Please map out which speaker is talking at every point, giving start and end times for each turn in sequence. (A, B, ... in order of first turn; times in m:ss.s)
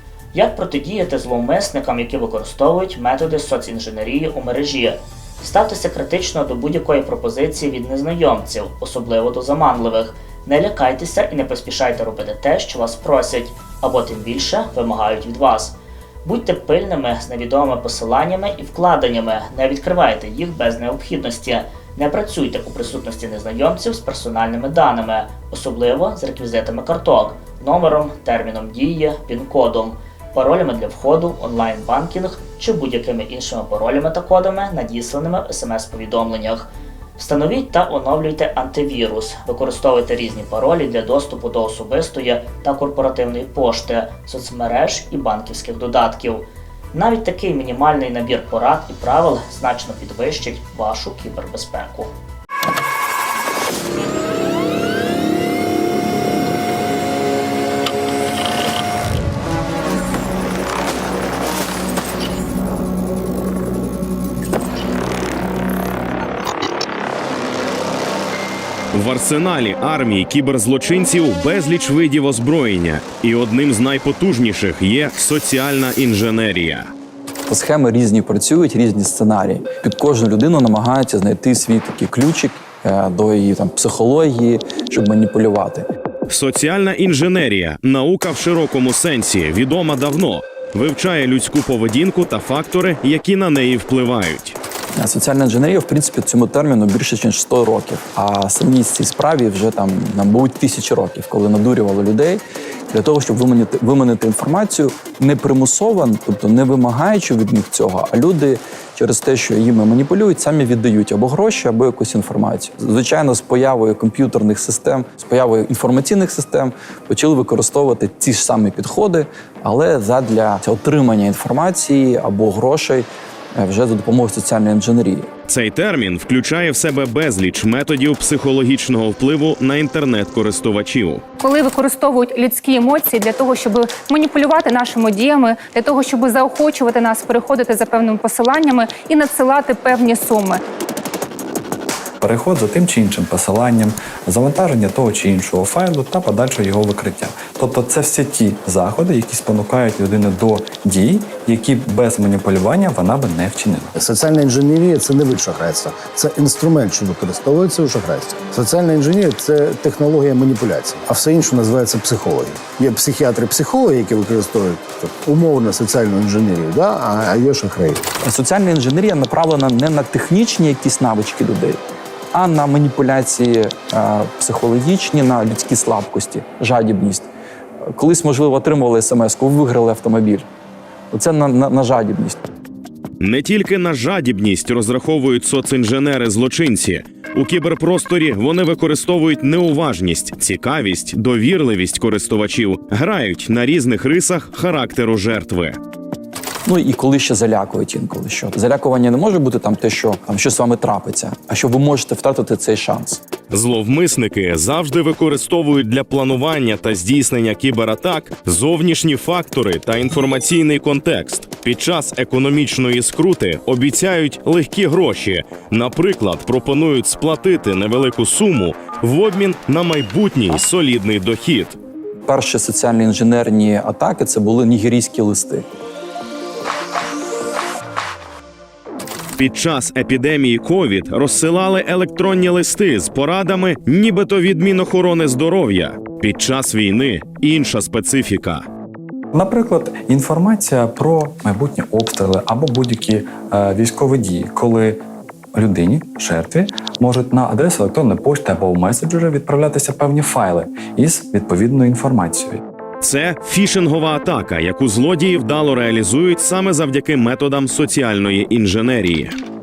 0:00.3-0:52.1 A
1:08.9-1:16.9 B
1:17.5-1:25.8 C
1:26.3-1:34.6 B
1:35.0-2:05.3 C
2:05.5-2:11.2 B
2:11.4-2:20.6 D
2:22.2-2:33.9 E
2:34.0-2:48.0 F
2:48.2-2:51.8 C
2:52.3-2:57.3 C
2:57.9-3:00.5 C
3:01.1-3:02.4 C
3:03.2-3:15.8 B
3:16.6-3:23.2 C
3:23.5-3:41.8 B
3:42.3-3:45.8 C
3:49.4-3:58.6 B
3:59.3-4:05.0 E
4:05.5-4:12.6 E
4:13.0-4:19.4 B